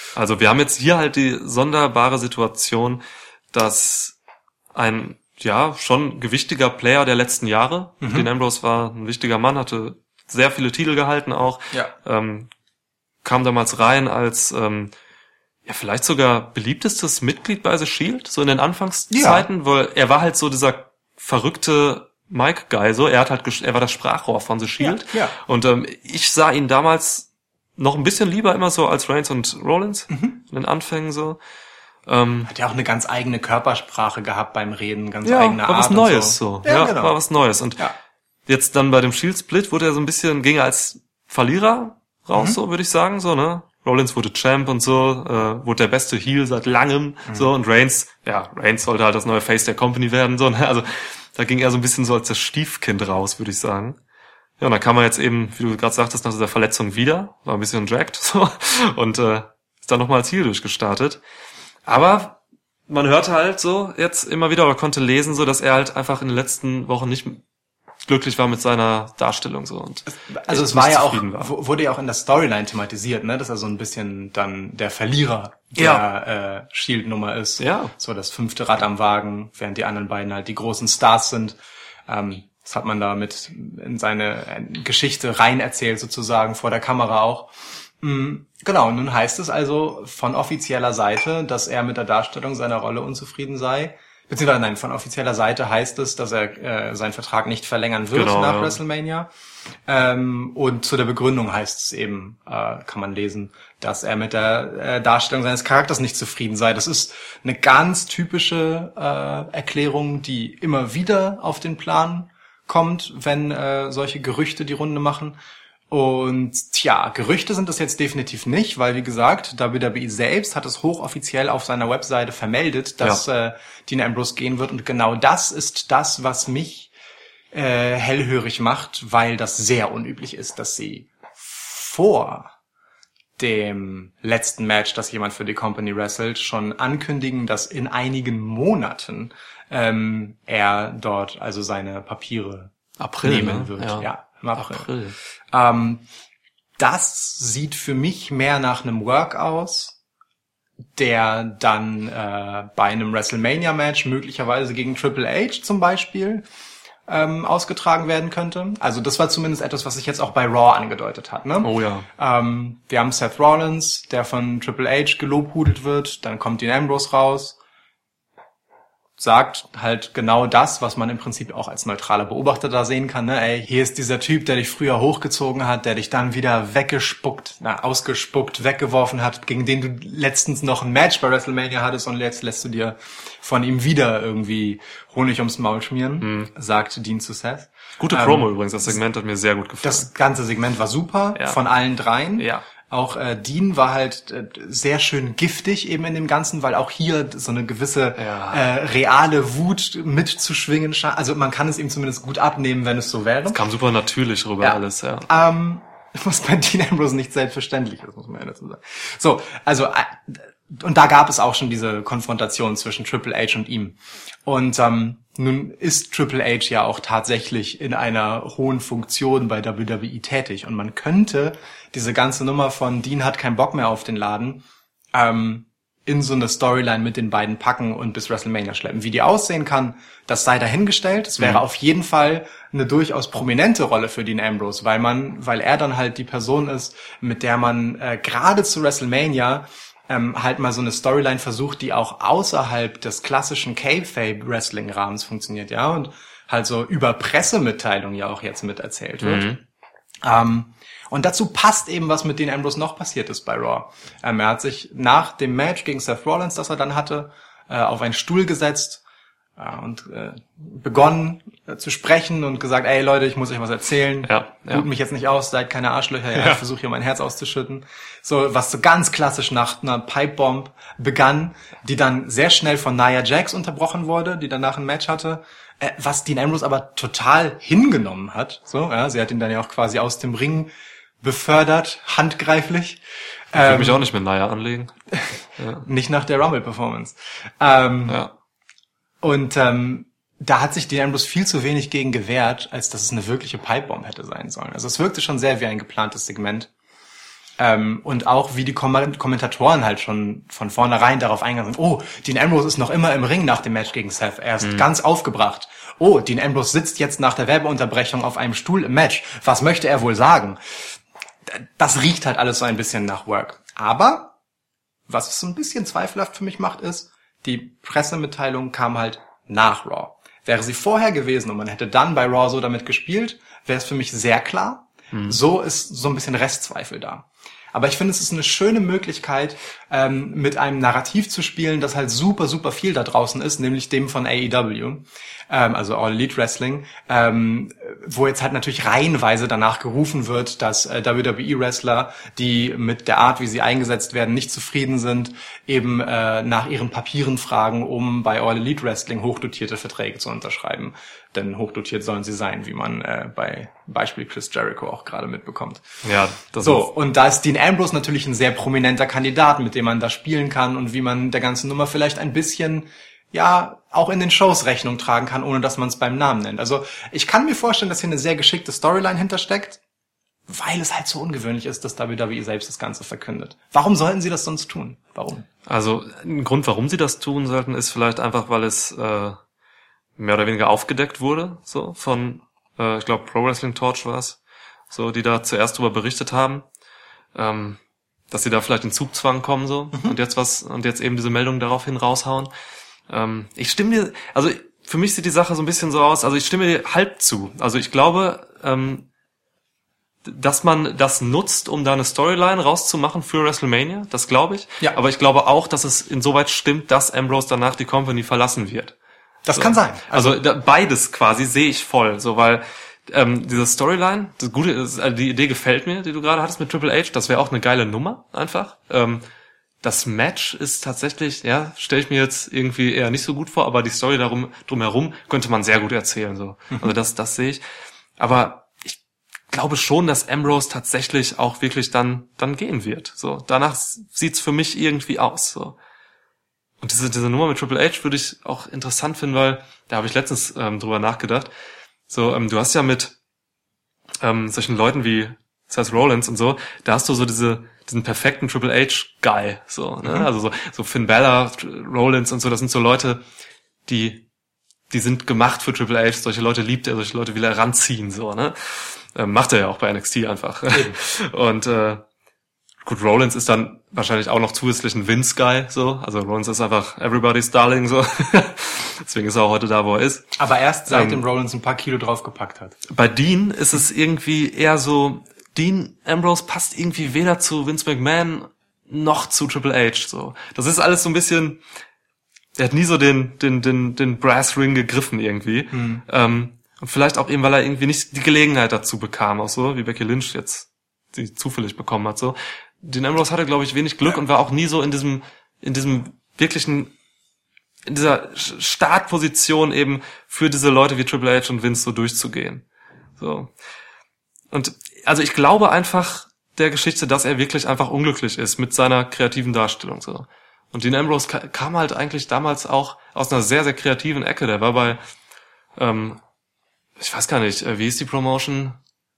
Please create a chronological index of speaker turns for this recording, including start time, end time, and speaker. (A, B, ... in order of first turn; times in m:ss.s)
0:00.1-0:04.2 A
0:04.7-0:12.5 A
0:08.0-0:08.3 B
0:13.2-0:14.9 A
0:15.6-0:31.4 A
0:19.1-0:19.4 B
0:24.8-0:25.3 B
0:30.1-0:30.4 B
0:32.0-0:32.5 A
0:32.5-0:37.2 B
0:35.2-0:37.8 A
0:38.5-0:54.0 A
0:54.6-1:01.2 A
1:01.8-1:02.4 A
1:02.9-1:07.4 A
1:08.0-1:11.5 A
1:10.1-1:21.6 B
1:15.8-1:16.0 A
1:17.6-1:17.9 A
1:22.1-1:27.5 B
1:28.0-1:39.3 B
1:38.1-1:38.8 A
1:39.9-1:55.4 B
1:55.9-2:06.9 B
2:07.5-2:12.5 B
2:13.4-2:24.9 B
2:23.0-2:25.2 A
2:25.5-2:26.0 B
2:26.8-2:30.0 B
2:31.0-2:36.4 B
2:37.1-2:47.6 B
2:41.6-2:42.1 A
2:49.2-3:08.5 B
3:06.2-3:06.5 A
3:08.0-3:10.1 A
3:09.8-3:23.6 B
3:12.4-3:12.6 A
3:18.2-3:18.6 A
3:23.5-3:25.2 A
3:24.6-4:09.6 B
4:09.2-4:09.6 A
4:10.2-4:19.0 B
4:19.6-4:40.7 B
4:24.2-4:24.8 A
4:26.4-4:26.6 A
4:41.2-4:43.0 B
4:43.5-4:44.0 B
4:43.5-4:44.9 A
4:45.1-4:48.2 B
4:45.6-4:45.8 A
4:49.2-4:56.7 B
4:57.6-5:10.8 B
5:04.6-5:04.8 A
5:11.5-5:14.3 B
5:15.1-5:55.8 B
5:25.1-5:25.4 A
5:56.0-5:56.9 A
5:56.6-6:09.8 B
6:10.5-6:15.5 B
6:15.6-6:19.4 A
6:20.2-6:24.4 A
6:24.9-6:26.6 A
6:27.3-6:27.8 A
6:28.3-6:32.5 A
6:33.1-6:39.1 A
6:40.2-6:48.9 A
6:49.4-6:50.4 B
6:49.5-6:59.2 A
6:59.8-7:07.6 A
7:08.2-7:09.0 A
7:09.5-7:15.8 A
7:16.8-7:21.5 A
7:22.1-7:23.1 A
7:24.2-7:33.2 A
7:33.9-7:34.2 A
7:34.9-7:42.0 A
7:40.7-7:41.0 B
7:42.8-7:50.4 A
7:50.4-7:52.8 B
7:50.9-7:51.2 A
7:52.9-8:01.6 A
8:02.6-8:16.9 A
8:05.7-8:06.0 B
8:17.9-8:22.6 A
8:23.2-8:23.5 A
8:24.5-8:35.0 A
8:35.8-8:36.2 A
8:37.0-8:38.8 A